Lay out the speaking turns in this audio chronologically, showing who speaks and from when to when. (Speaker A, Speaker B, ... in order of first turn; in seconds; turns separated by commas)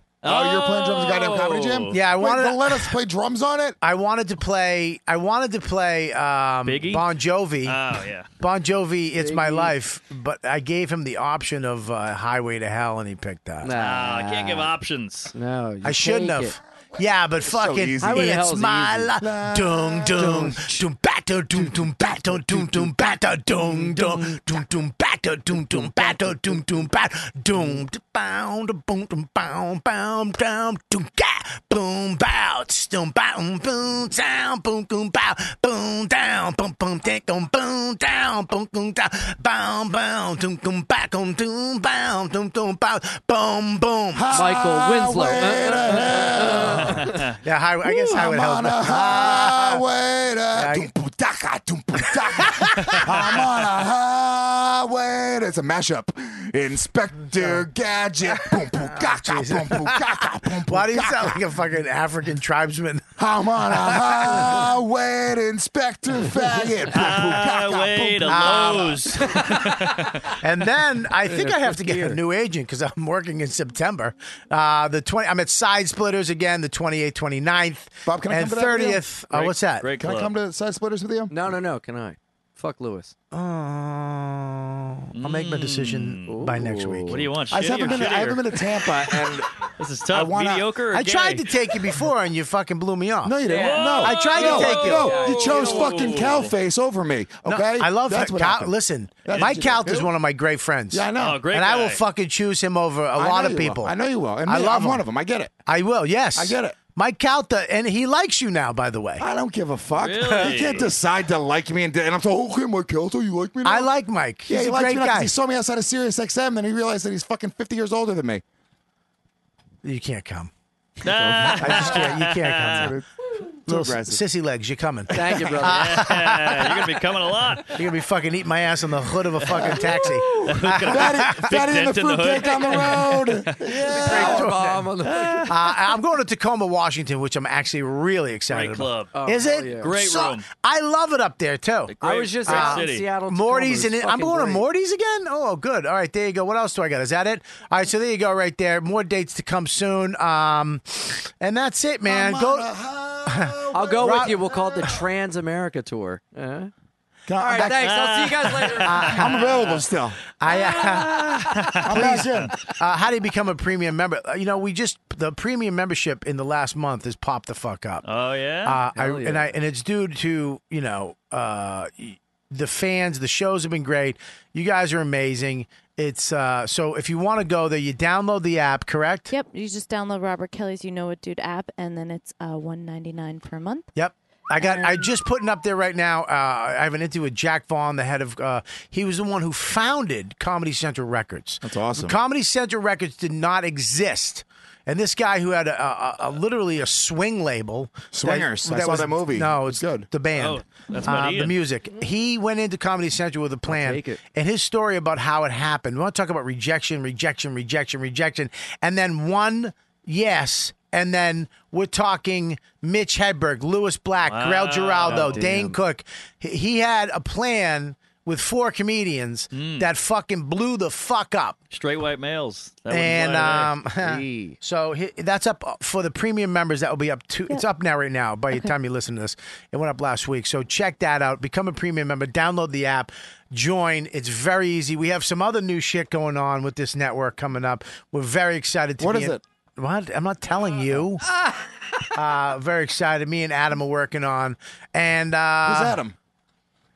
Speaker A: 0.2-2.0, Speaker B: 0.2-3.8, Speaker C: 1.9-2.9, Speaker C: 3.8-7.8, Speaker A: 6.6-7.0, Speaker A: 7.6-8.3, Speaker C: 8.4-13.7, Speaker D: 9.2-9.7, Speaker D: 13.6-14.7, Speaker A: 13.8-15.3, Speaker D: 15.3-16.6, Speaker C: 15.8-44.5, Speaker B: 16.9-18.4, Speaker D: 18.0-19.1, Speaker B: 19.2-20.8, Speaker D: 21.6-22.9, Speaker D: 23.5-24.4, Speaker D: 25.5-26.6, Speaker D: 27.5-27.8, Speaker B: 44.1-47.1, Speaker D: 44.3-47.2, Speaker A: 46.8-47.4, Speaker C: 47.4-49.8, Speaker B: 47.9-61.4, Speaker C: 50.5-50.9, Speaker C: 52.1-53.5, Speaker C: 58.5-63.1, Speaker B: 63.2-69.2, Speaker C: 63.6-64.6, Speaker A: 66.9-70.2, Speaker C: 68.3-69.5, Speaker C: 70.4-79.9, Speaker D: 71.2-72.2, Speaker B: 78.0-79.0, Speaker A: 79.3-80.3, Speaker B: 80.0-81.3, Speaker D: 81.3-83.1, Speaker C: 83.3-87.3, Speaker A: 85.1-86.3, Speaker D: 86.3-87.3, Speaker A: 87.1-92.0, Speaker B: 87.5-90.7, Speaker C: 90.9-93.4, Speaker B: 93.2-100.1, Speaker D: 93.4-96.4, Speaker A: 93.5-96.5, Speaker C: 94.0-95.2, Speaker C: 97.5-103.9, Speaker B: 100.9-101.4, Speaker A: 101.2-102.0, Speaker B: 103.2-105.6, Speaker C: 104.5-105.0, Speaker C: 105.7-109.2, Speaker B: 106.3-106.8, Speaker B: 109.2-113.9, Speaker A: 110.0-110.9, Speaker C: 110.3-110.6, Speaker C: 113.6-115.3, Speaker B: 114.5-118.4, Speaker C: 119.8-120.5, Speaker A: 121.0-122.9, Speaker B: 121.0-123.1, Speaker C: 121.6-123.0, Speaker B: 123.6-124.2, Speaker C: 123.7-127.0, Speaker D: 125.1-126.0, Speaker A: 125.6-127.8, Speaker C: 127.7-131.5, Speaker A: 129.4-134.4, Speaker B: 129.5-134.5, Speaker D: 133.8-135.5, Speaker C: 133.8-134.9, Speaker A: 135.0-135.7, Speaker C: 135.4-152.7, Speaker A: 138.5-139.1, Speaker D: 139.1-139.9, Speaker A: 139.8-140.4, Speaker A: 141.9-143.0, Speaker D: 142.0-144.6, Speaker B: 152.0-154.9, Speaker C: 153.3-154.3, Speaker D: 153.7-156.7, Speaker B: 157.3-158.1, Speaker D: 157.4-159.1, Speaker A: 157.6-159.8, Speaker C: 158.8-159.7, Speaker B: 159.1-160.2, Speaker C: 160.4-168.0, Speaker A: 160.5-162.5, Speaker B: 161.8-162.5, Speaker A: 168.0-168.8, Speaker C: 168.6-179.3, Speaker D: 168.9-169.5, Speaker E: 179.3-183.9, Speaker C: 183.9-221.6, Speaker E: 184.6-185.1, Speaker B: 191.6-192.2, Speaker B: 198.1-200.1, Speaker A: 200.3-201.6, Speaker D: 203.7-204.2, Speaker A: 214.2-215.5, Speaker D: 215.1-215.8, Speaker A: 219.5-219.9, Speaker A: 221.7-223.7, Speaker C: 222.9-241.4, Speaker D: 224.0-224.6, Speaker B: 239.0-239.4, Speaker C: 242.1-246.0, Speaker B: 245.6-246.1